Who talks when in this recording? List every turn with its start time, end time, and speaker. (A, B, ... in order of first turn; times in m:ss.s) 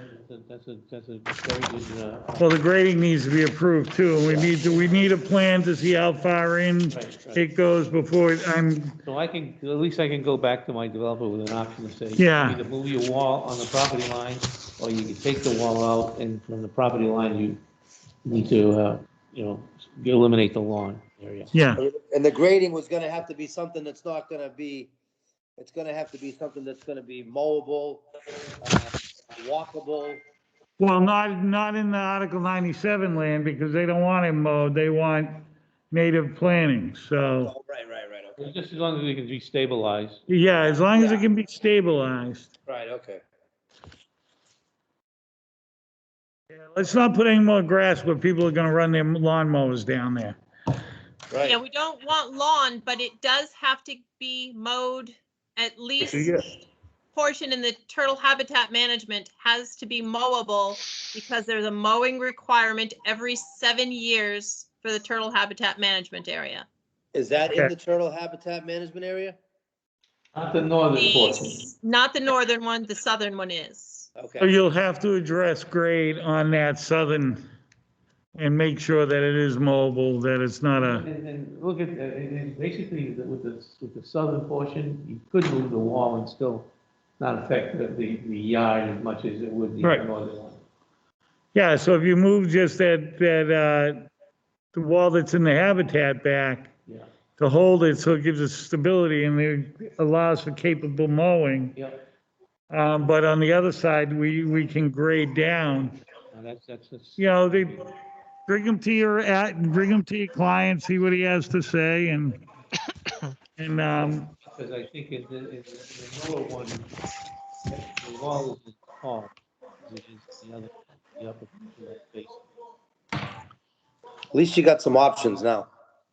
0:00.1-0:02.5 A
0:02.4-0:09.0 B
0:04.2-0:04.5 A
0:06.9-0:07.4 A
0:09.0-0:17.6 A
0:12.2-0:12.6 B
0:18.2-0:21.5 A
0:21.5-0:21.8 B
0:21.8-0:24.9 C
0:25.6-0:28.1 C
0:28.6-0:30.2 C
0:30.8-0:37.5 B
0:37.4-0:38.4 C
0:38.4-0:40.2 A
0:40.3-0:42.5 B
0:40.9-0:41.3 C
0:42.7-0:43.2 C
0:46.5-0:50.4 B
0:51.3-0:51.6 C
0:51.4-0:56.4 D
0:56.0-0:56.4 B
0:57.1-1:06.7 D
1:07.1-1:09.4 C
1:10.4-1:11.6 A
1:11.0-1:14.1 D
1:14.2-1:14.5 C
1:14.4-1:17.4 B
1:18.4-1:21.1 B
1:20.8-1:30.6 A
1:31.5-1:34.1 B
1:34.7-1:36.7 B
1:37.4-1:41.8 B
1:41.8-1:42.0 A
1:42.7-1:46.0 B
1:46.3-1:47.9 A
1:47.2-1:47.8 B
1:48.5-1:52.4 B
1:53.6-1:54.3 B
1:54.0-1:56.9 A
1:57.7-1:59.3 A
1:59.8-2:02.4 A
2:04.3-2:05.7 C